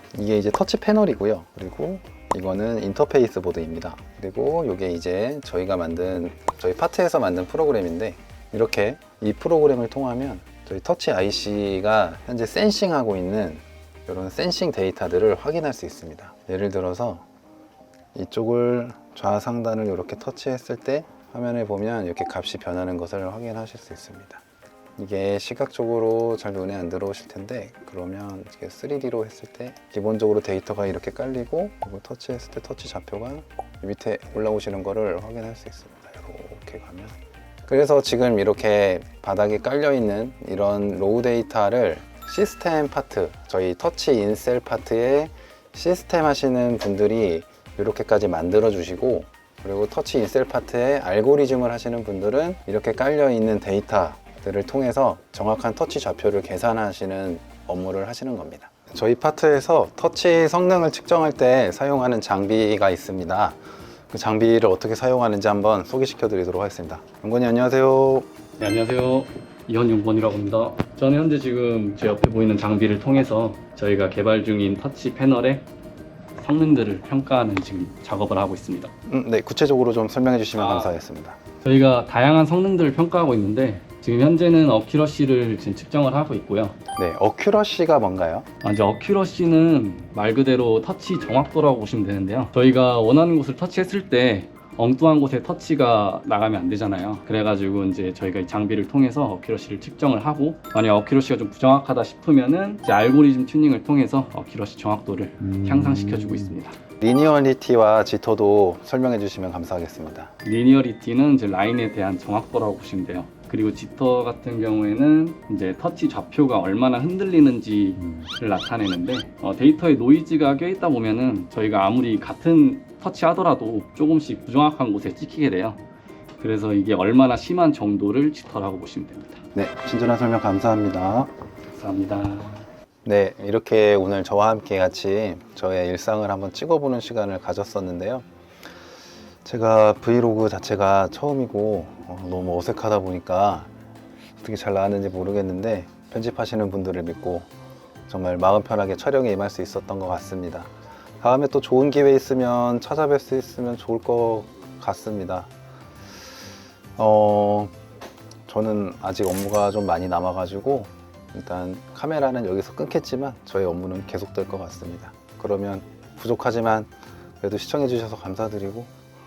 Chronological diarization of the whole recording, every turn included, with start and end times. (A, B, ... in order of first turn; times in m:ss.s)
0:00.1-0:17.2 A
0:18.1-0:24.4 A
0:25.0-0:37.1 A
0:37.7-1:03.6 A
1:04.1-1:08.3 A
1:08.6-1:15.7 B
1:16.4-1:18.9 B
1:19.1-1:21.4 A
1:20.5-1:21.0 B
1:21.6-1:26.8 B
1:27.0-1:28.5 A
1:28.6-1:46.8 B
1:45.6-1:46.5 A
1:47.0-1:50.3 A
1:50.4-2:05.8 B
2:06.4-2:09.4 B
2:09.5-2:11.3 A
2:11.7-2:12.6 B
2:13.0-2:18.2 A
2:19.4-2:23.7 A
2:24.4-2:27.5 A
2:28.1-2:35.5 A
2:37.0-2:37.7 A
2:38.5-2:46.9 A
2:47.4-2:48.9 A